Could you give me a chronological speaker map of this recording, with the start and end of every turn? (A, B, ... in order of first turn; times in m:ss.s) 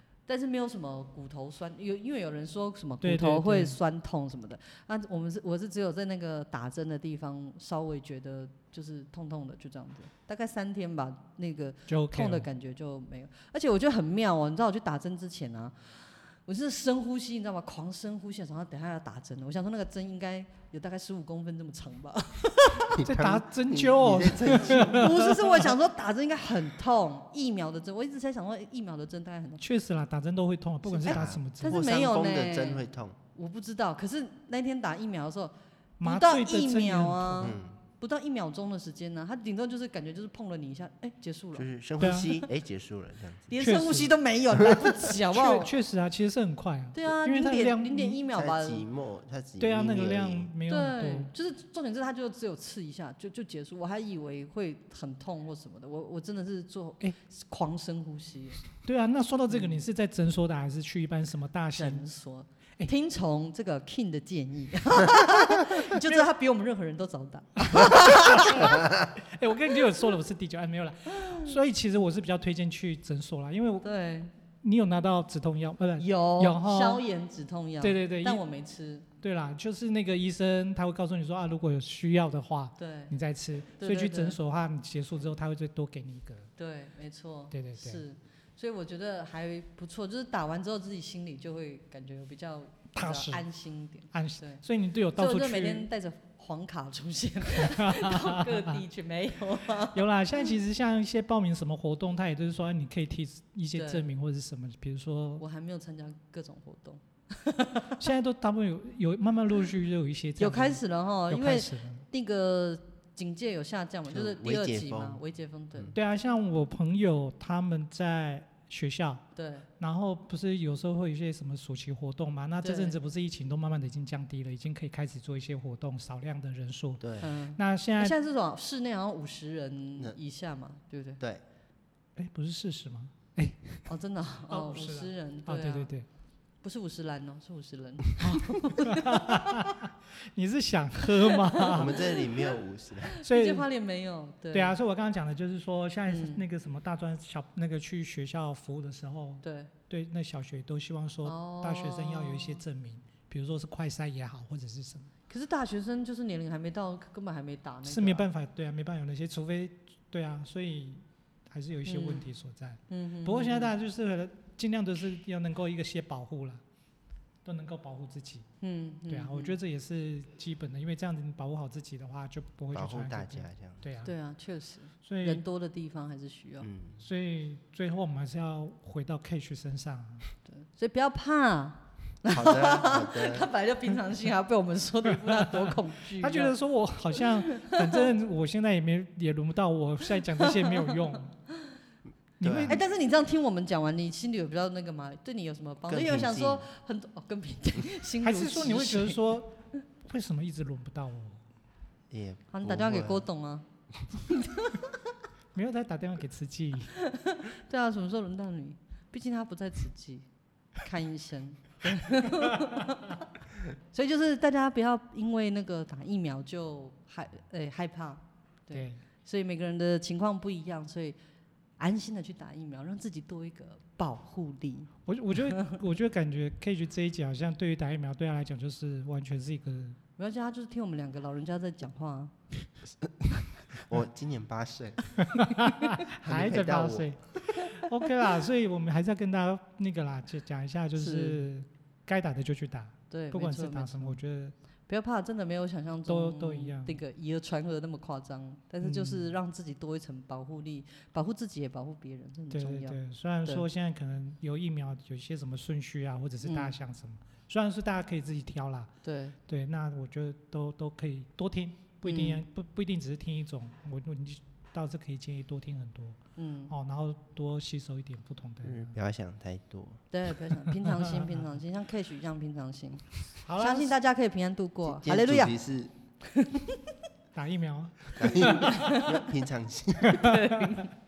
0:00.3-0:23.1 A
0:03.0-0:03.8 B
0:11.9-0:12.5 B
0:23.0-0:25.0 C
0:23.0-0:25.5 B
0:24.6-0:29.6 A
0:29.6-0:31.8 B
0:30.8-0:33.2 C
0:31.0-0:41.7 A
0:36.0-0:37.6 B
0:37.4-0:37.8 C
0:41.6-0:43.6 C
0:42.0-0:42.4 B
0:43.5-0:45.7 A
0:43.6-0:44.1 B
0:45.3-0:48.2 B
0:46.9-0:48.8 A
0:48.3-0:50.5 C
0:49.6-0:51.3 B
0:50.7-0:58.6 A
0:58.8-1:02.0 B
0:59.5-0:59.8 A
1:01.8-1:08.8 A
1:05.9-1:06.3 B
1:07.6-1:13.9 B
1:13.8-1:14.3 A
1:14.6-1:17.0 B
1:16.0-1:19.0 A
1:17.8-1:18.4 B
1:19.2-1:26.5 B
1:22.8-1:23.1 A
1:23.8-1:24.4 A
1:26.6-1:34.6 A
1:27.5-1:28.0 B
1:32.9-1:33.4 B
1:34.1-1:35.9 B
1:35.2-1:40.0 A
1:37.6-1:38.8 B
1:39.9-1:45.4 B
1:43.7-1:44.1 A
1:45.4-1:48.0 A
1:48.0-1:52.0 B
1:50.4-1:56.0 A
1:54.1-1:55.2 C
1:55.9-1:59.2 B
1:59.4-1:59.7 A
1:59.8-2:08.2 B
2:02.6-2:03.0 A
2:07.0-2:07.3 C
2:07.2-2:11.2 A
2:12.2-2:13.9 B
2:13.9-2:15.9 A
2:14.5-2:16.0 B
2:16.6-2:19.6 A
2:18.2-2:22.1 B
2:21.4-2:22.3 A
2:21.7-2:23.1 C
2:23.2-2:24.8 A
2:23.2-2:23.7 B
2:24.5-2:35.1 B
2:26.1-2:26.4 A
2:29.4-2:29.7 A
2:31.2-2:32.6 A
2:35.3-2:38.3 A
2:37.8-2:46.6 B
2:41.9-2:42.3 A
2:42.9-2:43.7 A
2:47.4-2:48.4 B
2:48.6-2:49.6 A
2:49.1-2:54.1 B
2:52.7-2:53.8 C
2:54.0-2:56.7 A
2:55.0-2:55.4 B
2:56.6-2:57.0 C
2:57.0-3:00.2 B
3:00.4-3:06.6 A
3:02.3-3:03.5 C
3:06.2-3:11.4 B
3:07.4-3:07.7 A
3:10.5-3:10.9 A
3:12.4-3:12.8 B
3:12.4-3:12.8 C
3:12.7-3:19.3 A
3:15.9-3:16.6 C
3:18.2-3:19.5 B
3:20.0-3:21.4 B
3:22.1-3:23.2 C
3:22.5-3:24.9 A
3:25.5-3:26.9 B
3:27.0-3:30.3 A
3:30.8-3:33.2 A
3:33.9-3:41.2 A
3:38.7-3:39.0 B
3:41.8-3:45.7 A
3:45.1-3:50.0 B
3:50.2-3:52.3 A
3:53.8-3:55.0 C
3:55.3-4:04.5 B
3:56.2-3:57.1 C
4:01.0-4:01.4 A
4:03.1-4:04.2 A
4:04.9-4:13.6 A
4:06.1-4:06.9 B
4:08.8-4:09.3 B
4:12.5-4:18.9 B
4:16.4-4:16.8 A
4:19.0-4:19.4 A
4:19.5-4:26.2 B
4:22.0-4:22.4 A
4:26.4-4:26.7 A
4:26.7-4:29.0 B
4:28.6-4:30.0 C
4:30.1-4:35.6 A
4:33.4-4:33.9 B
4:34.8-4:35.9 C
4:36.4-4:36.8 A
4:37.4-4:39.0 B
4:38.2-4:40.2 C
4:38.4-4:39.2 A
4:40.1-4:40.9 A
4:40.2-4:40.4 B